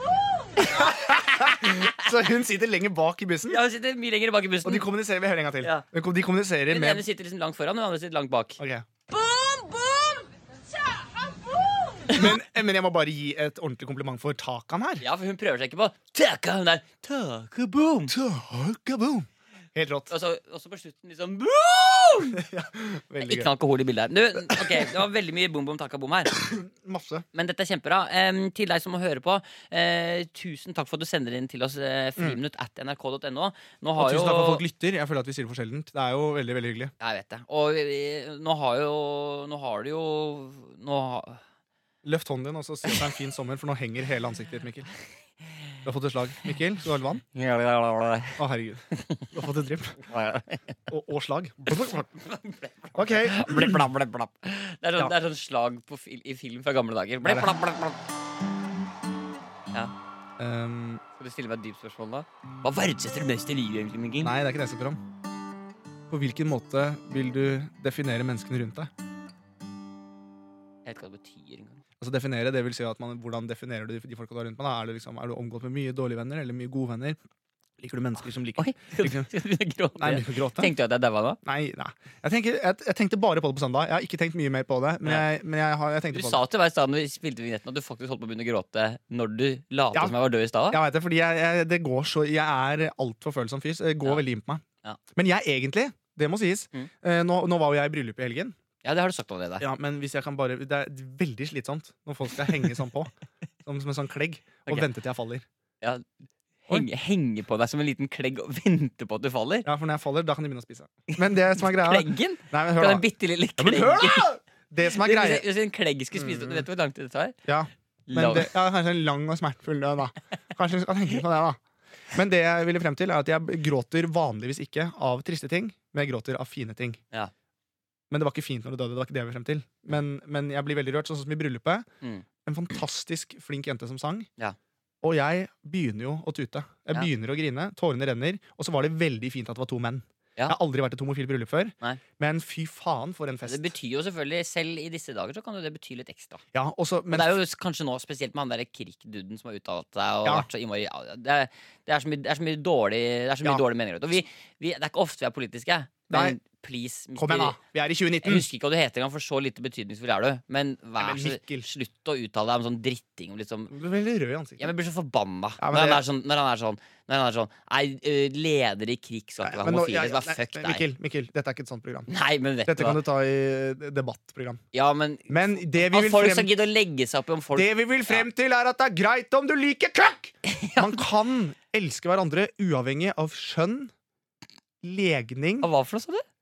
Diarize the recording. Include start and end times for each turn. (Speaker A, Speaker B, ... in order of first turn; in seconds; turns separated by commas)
Speaker A: 0.6-1.9, Speaker B: 0.6-3.6, Speaker A: 3.5-4.9, Speaker B: 4.6-7.0, Speaker A: 6.7-8.6, Speaker B: 8.6-8.9, Speaker A: 9.1-10.3, Speaker A: 11.9-12.3, Speaker B: 12.1-15.1, Speaker A: 15.0-18.1, Speaker B: 18.1-20.1, Speaker A: 20.1-22.4, Speaker B: 22.4-23.5, Speaker A: 23.2-26.4, Speaker B: 24.5-24.9, Speaker B: 26.4-27.2, Speaker A: 27.3-34.6, Speaker B: 34.0-36.9, Speaker A: 37.0-41.4, Speaker B: 42.0-44.9, Speaker B: 45.9-47.2, Speaker A: 47.3-48.4, Speaker B: 48.4-50.0, Speaker A: 49.0-49.3, Speaker A: 50.0-50.8, Speaker B: 50.9-52.1, Speaker A: 51.7-58.0, Speaker B: 53.0-53.9, Speaker B: 57.2-57.5, Speaker B: 60.4-61.0, Speaker A: 61.2-64.3, Speaker B: 64.2-65.0, Speaker B: 66.1-68.9, Speaker A: 70.9-71.8, Speaker B: 72.0-77.2, Speaker B: 77.8-79.3, Speaker A: 78.6-81.4, Speaker B: 80.0-80.7, Speaker B: 81.4-86.4, Speaker A: 86.1-90.8, Speaker B: 90.7-98.6, Speaker A: 98.8-99.7, Speaker B: 99.6-103.1, Speaker B: 103.7-105.5, Speaker A: 105.8-106.1, Speaker A: 106.7-109.7, Speaker B: 109.7-113.0, Speaker A: 111.1-114.3, Speaker B: 113.6-115.5, Speaker A: 114.9-117.4, Speaker B: 116.2-116.7, Speaker B: 117.5-121.6, Speaker A: 118.1-118.5, Speaker B: 122.1-127.0, Speaker B: 128.1-131.9, Speaker B: 132.4-134.3, Speaker B: 135.0-143.7, Speaker A: 143.5-146.4, Speaker B: 146.5-147.4, Speaker A: 147.1-157.6, Speaker B: 156.1-156.4, Speaker B: 157.2-158.5, Speaker A: 158.2-163.7, Speaker B: 161.0-161.7, Speaker B: 163.7-164.7, Speaker A: 164.6-170.8, Speaker B: 165.6-166.0, Speaker B: 169.4-172.1, Speaker A: 172.1-173.0, Speaker B: 172.7-174.6, Speaker A: 174.7-178.3, Speaker B: 175.3-176.5, Speaker B: 177.6-183.9, Speaker A: 180.4-181.0, Speaker B: 184.8-185.7, Speaker A: 185.6-186.2